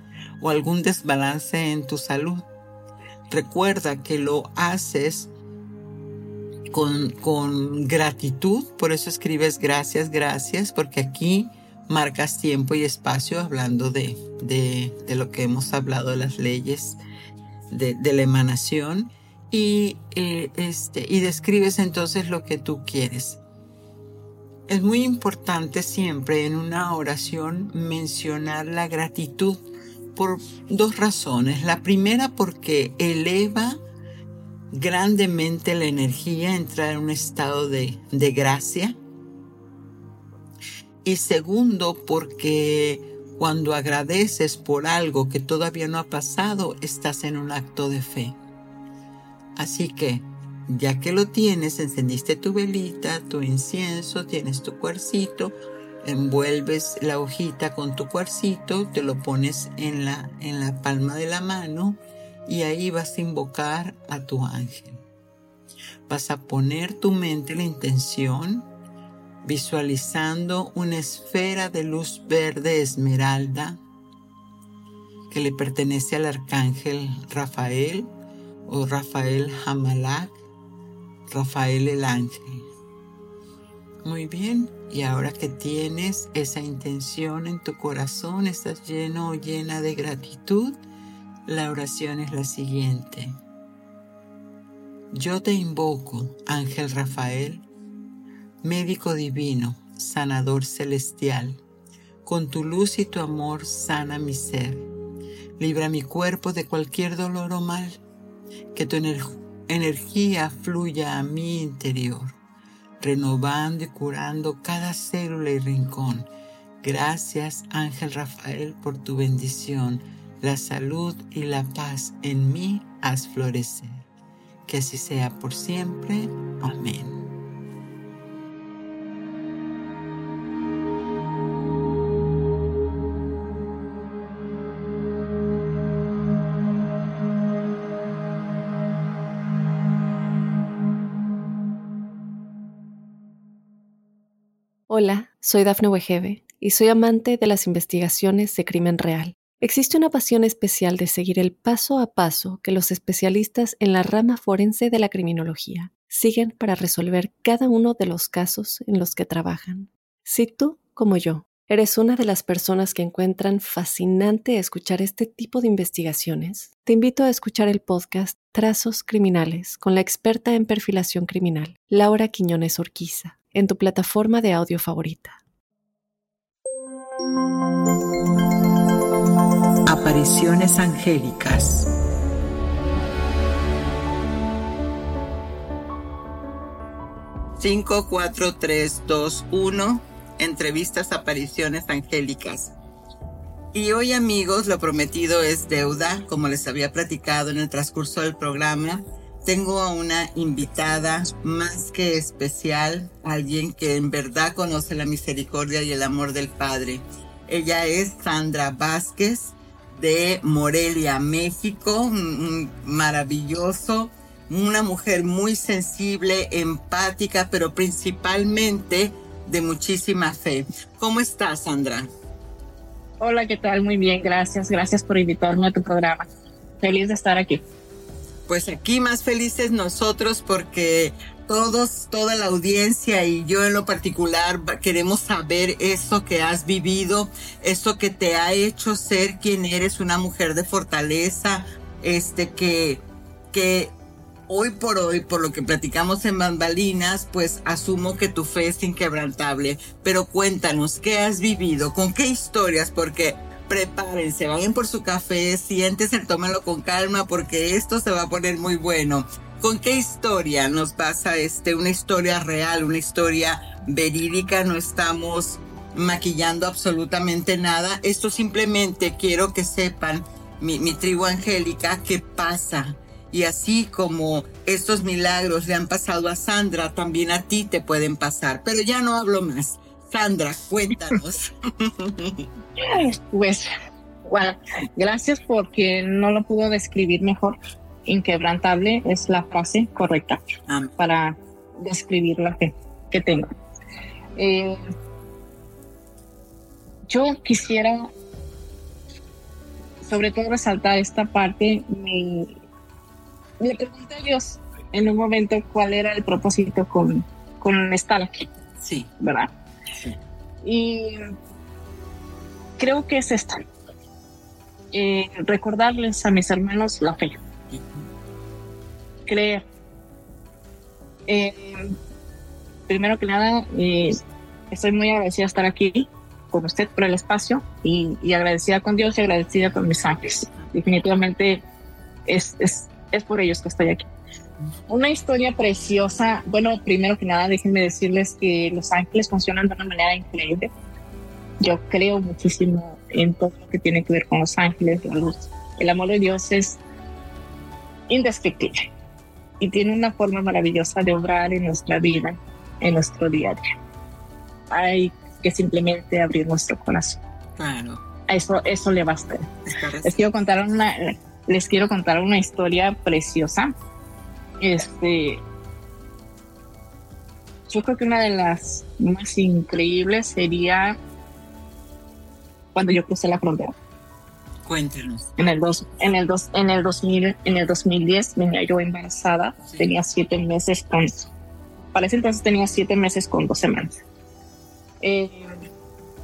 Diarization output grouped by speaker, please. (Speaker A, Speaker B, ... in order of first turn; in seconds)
Speaker A: 0.4-2.5, 3.3-5.3, 6.7-17.0, 17.7-23.4, 24.7-29.6, 30.1-33.8, 34.7-39.0, 41.0-48.4, 49.5-65.0, 66.1-68.7, 69.4-73.8, 75.3-78.1, 78.7-80.4, 81.3-82.7, 84.0-90.8, 91.5-93.4, 95.1-97.7, 98.6-101.6, 102.2-104.9, 105.6-108.0, 108.7-112.4, 113.0-116.3, 116.8-124.1, 124.7-127.3, 179.8-181.9, 187.6-192.7, 193.7-222.1, 228.5-243.9, 244.5-282.5, 290.7-290.9, 308.8-309.1, 309.9-310.2, 317.7-318.0, 357.6-358.0, 359.7-360.3, 374.6-375.3
Speaker B: 144.9-175.4
Speaker C: 223.2-226.3, 226.8-227.6, 282.8-283.7, 284.3-290.4, 291.0-293.5, 294.4-294.8, 297.1-298.1, 300.0-302.6, 303.6-308.5, 309.2-309.5, 310.6-311.3, 312.8-313.6, 314.9-317.4, 319.3-319.6, 321.3-321.9, 322.9-324.2, 324.7-331.6, 332.2-334.1, 334.9-340.7, 341.6-346.8, 348.1-348.9, 349.6-353.6, 354.7-357.2, 358.3-363.7, 364.6-365.4, 367.7-371.0, 372.7-373.7, 375.4-381.3, 381.9-384.0, 385.0-385.6